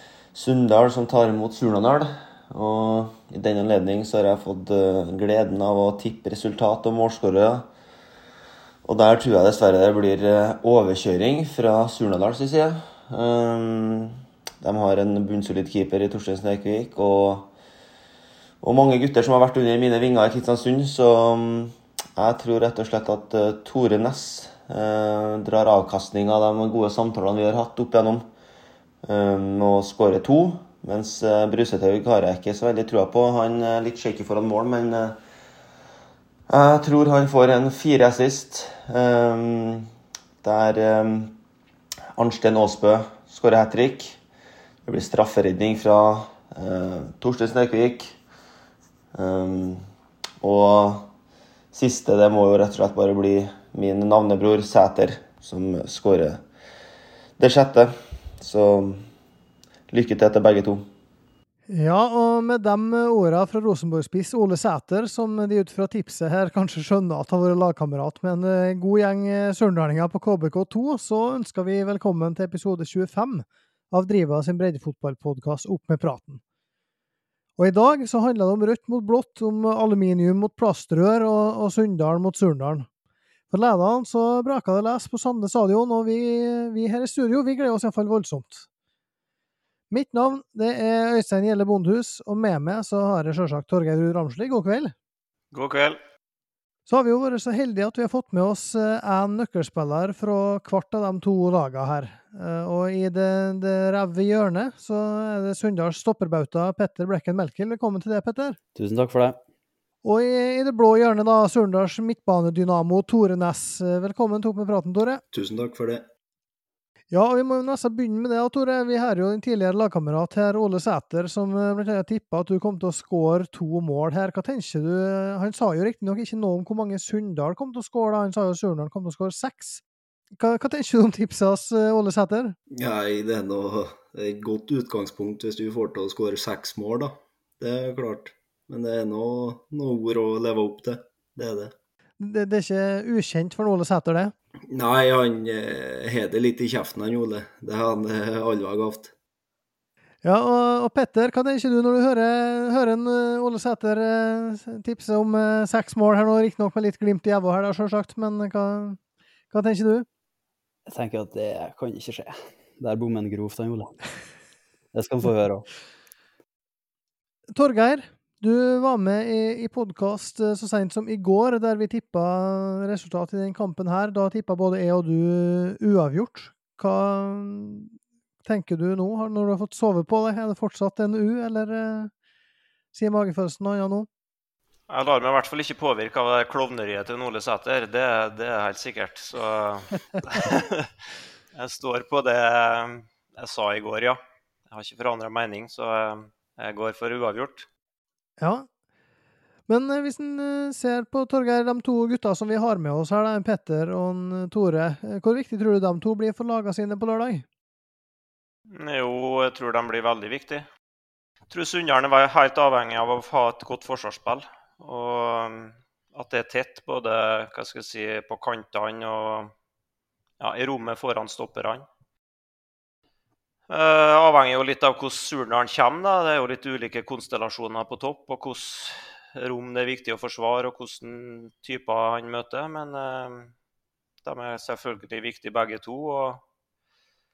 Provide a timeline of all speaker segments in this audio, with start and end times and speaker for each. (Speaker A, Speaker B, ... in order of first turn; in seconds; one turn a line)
Speaker A: 0.3-7.7
Speaker A: 8.8-17.5
Speaker A: 18.6-28.3
Speaker A: 29.0-35.2
Speaker A: 36.5-39.9
Speaker A: 40.4-41.4
Speaker A: 42.1-44.2
Speaker A: 44.9-48.2
Speaker A: 49.1-49.9
Speaker A: 50.4-51.1
Speaker A: 51.7-56.4
Speaker A: 57.4-59.0
Speaker A: 59.9-60.9
Speaker B: 61.7-76.4
Speaker B: 77.6-82.9
Speaker B: 83.5-88.7
Speaker B: 89.9-94.9
Speaker C: 95.5-96.0
Speaker B: 96.9-108.6
Speaker D: 108.8-109.4
Speaker B: 110.0-115.2
Speaker E: 115.3-116.0
Speaker B: 117.1-129.8
Speaker B: 130.4-132.6
Speaker E: 132.7-141.7
Speaker B: 142.2-144.3
Speaker E: 144.7-149.1
Speaker B: 150.2-159.0
Speaker B: 159.5-160.1
Speaker D: 160.9-164.0
Speaker D: 164.9-165.7
Speaker B: 167.5-182.1
Speaker B: 182.9-184.1
Speaker C: 184.9-197.7
Speaker B: 198.4-198.7
Speaker B: 199.7-207.4
Speaker C: 208.7-210.7
Speaker C: 211.5-219.5
Speaker C: 220.4-221.9
Speaker C: 223.7-233.5
Speaker C: 234.2-236.4